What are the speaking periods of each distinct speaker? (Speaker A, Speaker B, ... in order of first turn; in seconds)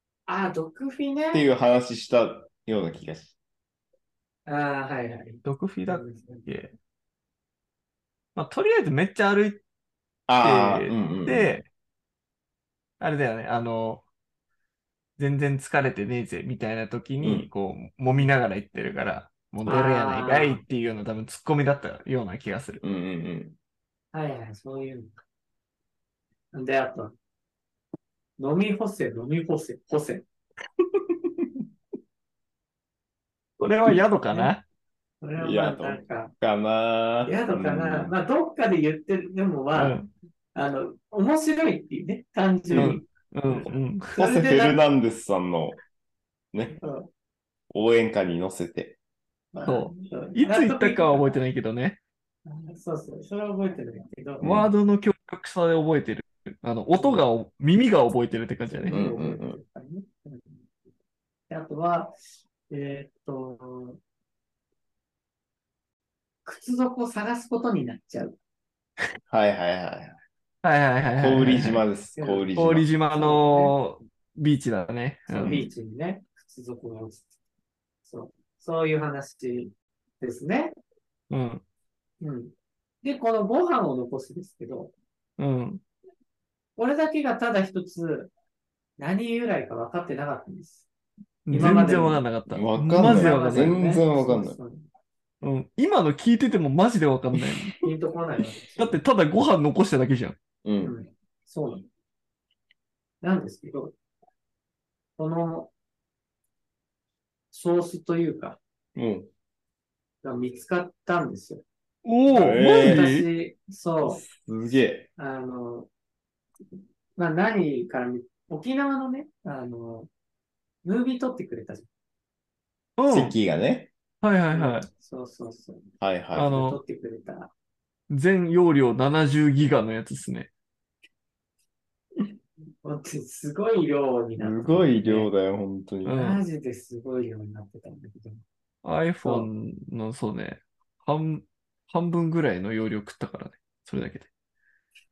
Speaker A: 0.3-1.4, 4.5-6.5, 19.7-20.6, 24.1-25.2, 26.5-27.1, 28.4-30.2, 35.2-36.3, 37.3-40.0, 40.5-43.0, 44.1-44.8, 46.8-47.1, 49.5-51.4, 52.5-54.4, 56.9-57.2, 58.7-60.6, 61.5-62.1, 62.7-64.0, 66.5-68.4, 72.2-73.8, 75.3-77.3, 78.1-80.8, 82.2-84.9, 86.8-88.3, 89.0-90.9, 91.5-92.2, 93.0-94.8, 97.8-99.0, 100.8-101.9, 103.2-104.0, 105.2-105.7, 107.5-108.6, 110.2-111.6, 112.4-114.2, 115.2-115.9, 117.2-120.1, 120.8-121.9, 124.5-125.8, 126.4-127.5, 132.8-135.3, 136.1-138.4
Speaker B: 1.3-3.3, 10.3-11.5, 17.2-17.5, 22.8-23.6, 31.0-31.5, 35.4-38.2, 42.7-43.0, 43.5-45.8, 47.7-49.0, 54.4-54.7, 58.9-59.6, 69.3-70.2, 71.2-72.9, 75.4-75.7, 91.5-94.6, 100.6-101.0, 109.0-109.3, 112.3-113.1, 114.0-115.1, 123.1-123.9, 126.0-126.6, 134.4-136.2
Speaker C: 5.4-6.7, 8.3-9.6, 10.4-11.7, 13.0-14.0, 15.2-22.8, 33.6-34.6, 39.7-40.1, 42.7-44.1, 49.7-52.0, 54.4-59.0, 70.6-71.8, 72.6-75.6, 81.3-81.6, 85.4-85.8, 91.5-93.8, 95.4-97.8, 98.8-100.4, 112.0-113.3, 123.0-123.3, 124.2-124.9, 126.3-126.8, 128.1-130.5, 136.1-136.4, 138.8-144.3